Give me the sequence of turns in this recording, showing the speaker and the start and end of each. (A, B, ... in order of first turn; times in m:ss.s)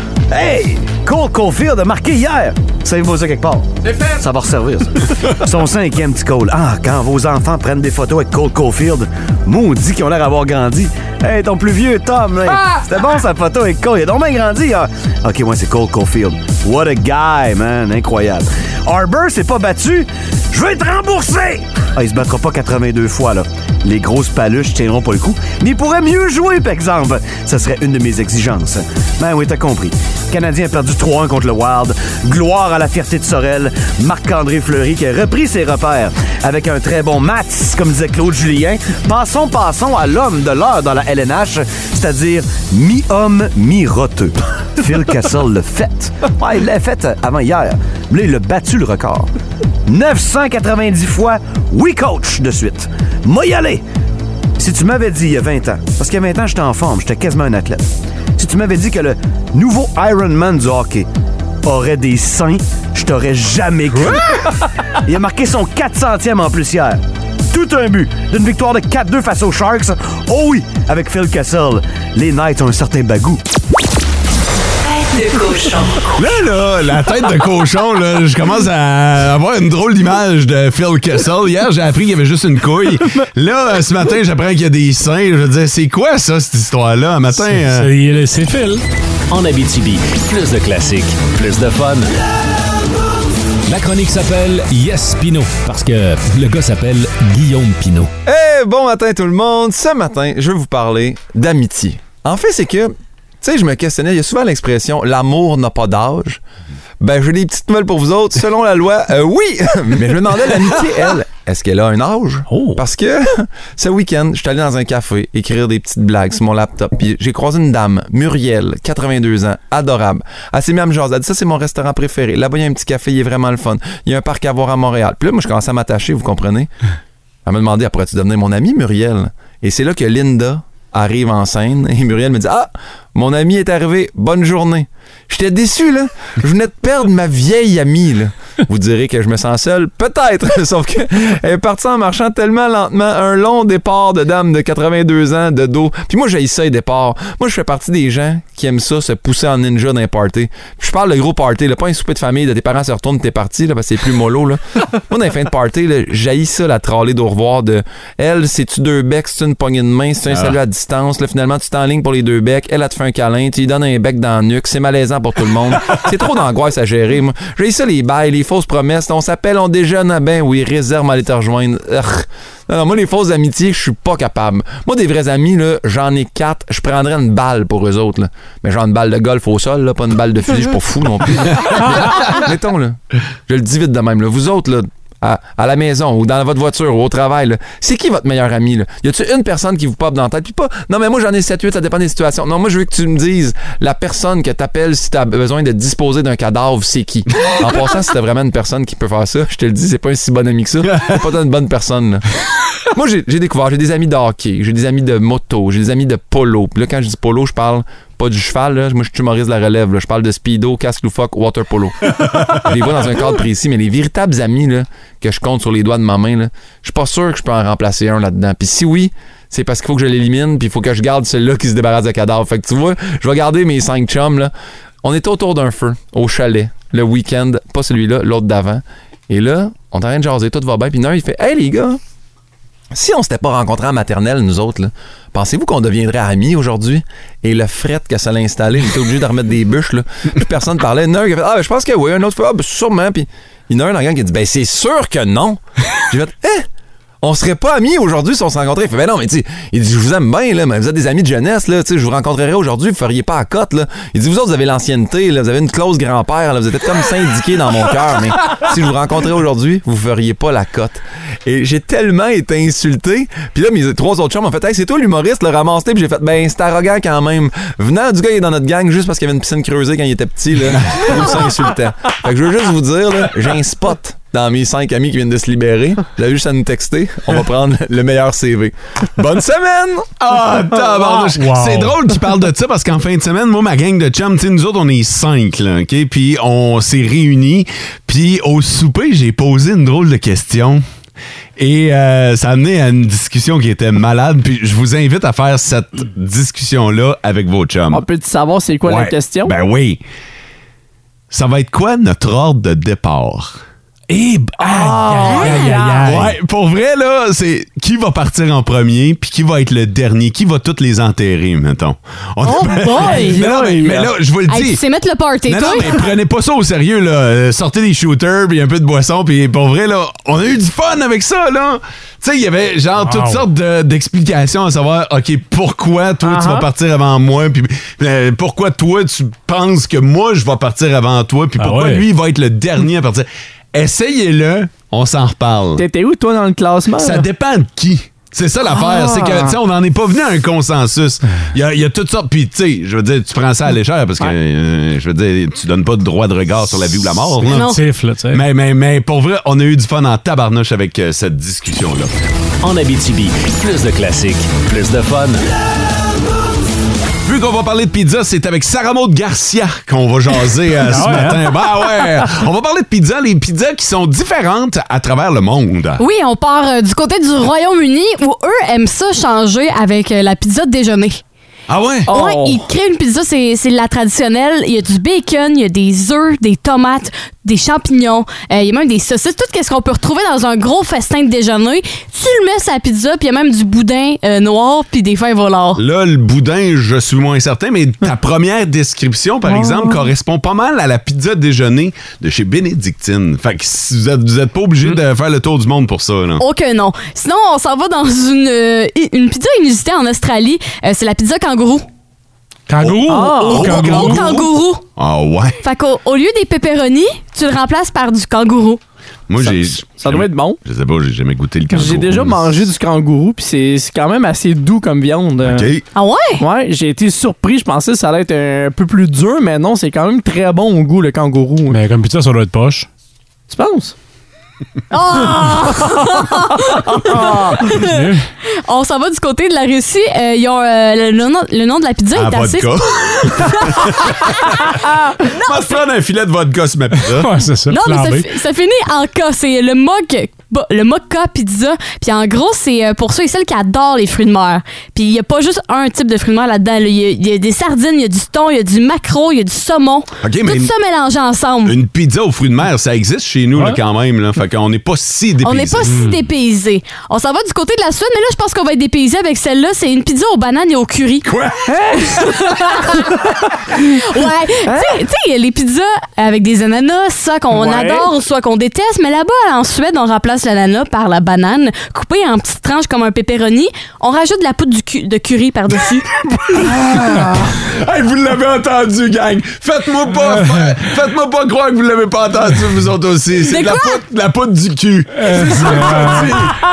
0:00.3-0:49.3 A
0:49.8-0:53.8 A
0:54.6-1:01.1 A
1:01.6-1:04.3 A
1:05.0-1:13.4 A
1:16.1-1:27.9 B
1:27.4-1:28.8 C
1:29.3-1:32.1 D
1:33.7-1:38.1 D
1:38.2-1:46.4 E
1:47.0-2:06.7 E
1:52.5-1:52.8 C
2:07.4-3:22.2 E
2:40.3-2:40.6 B
3:20.9-3:21.2 B
3:22.9-3:44.5 E
3:45.0-3:52.0 E
3:52.9-4:06.7 E
4:07.2-4:40.1 E
4:40.2-4:50.8 B
4:41.4-4:41.9 C
4:51.6-4:58.0 B
4:57.9-4:59.5 F
4:58.8-5:00.0 B
5:01.3-5:03.6 B
5:04.1-5:06.4 C
5:04.6-5:06.2 F
5:05.2-5:05.9 G
5:06.0-5:14.8 B
5:12.4-5:13.4 G
5:12.8-5:14.1 F
5:14.5-5:16.0 G
5:15.4-5:35.8 B
5:23.0-5:23.4 C
5:26.2-5:26.7 F
5:31.6-5:32.0 C
5:35.8-5:37.3 F
5:37.0-5:47.8 B
5:38.7-5:39.5 F
5:47.5-5:47.8 G
5:47.5-5:48.4 C
5:48.3-5:52.1 B
5:52.6-5:55.5 D
5:57.2-6:06.0 B
6:00.8-6:01.5 C
6:06.0-6:11.2 G
6:11.7-6:12.1 B
6:12.1-6:12.6 F
6:12.1-6:25.8 G
6:25.8-6:36.4 B
6:29.5-6:29.9 F
6:36.4-6:41.8 G
6:42.7-6:44.2 C
6:42.8-6:45.6 B
6:43.1-6:43.9 F
6:43.6-6:44.8 G
6:45.6-6:48.8 G
6:49.3-6:52.6 B
6:49.4-6:50.6 F
6:51.7-6:55.7 F
6:55.4-6:55.8 B
6:55.9-6:56.4 G
6:56.4-7:01.8 F
7:01.7-7:02.9 C
7:03.5-7:03.9 F
7:04.9-7:08.1 G
7:07.0-7:07.6 F
7:07.8-7:08.2 C
7:08.6-7:14.7 G
7:12.1-7:14.5 B
7:15.2-7:15.7 G
7:15.4-7:17.3 B
7:17.1-7:18.3 C
7:17.7-7:31.8 G
7:30.2-7:30.7 B
7:31.6-7:36.0 B
7:35.4-7:41.3 G
7:35.9-7:36.2 C
7:41.2-7:41.7 B
7:41.7-7:43.0 F
7:42.3-7:43.1 G
7:43.7-7:56.2 G
7:44.6-7:45.0 F
7:47.5-7:48.1 F
7:56.7-8:06.6 B
8:00.3-8:00.7 C
8:03.4-8:04.0 G
8:05.2-8:06.4 C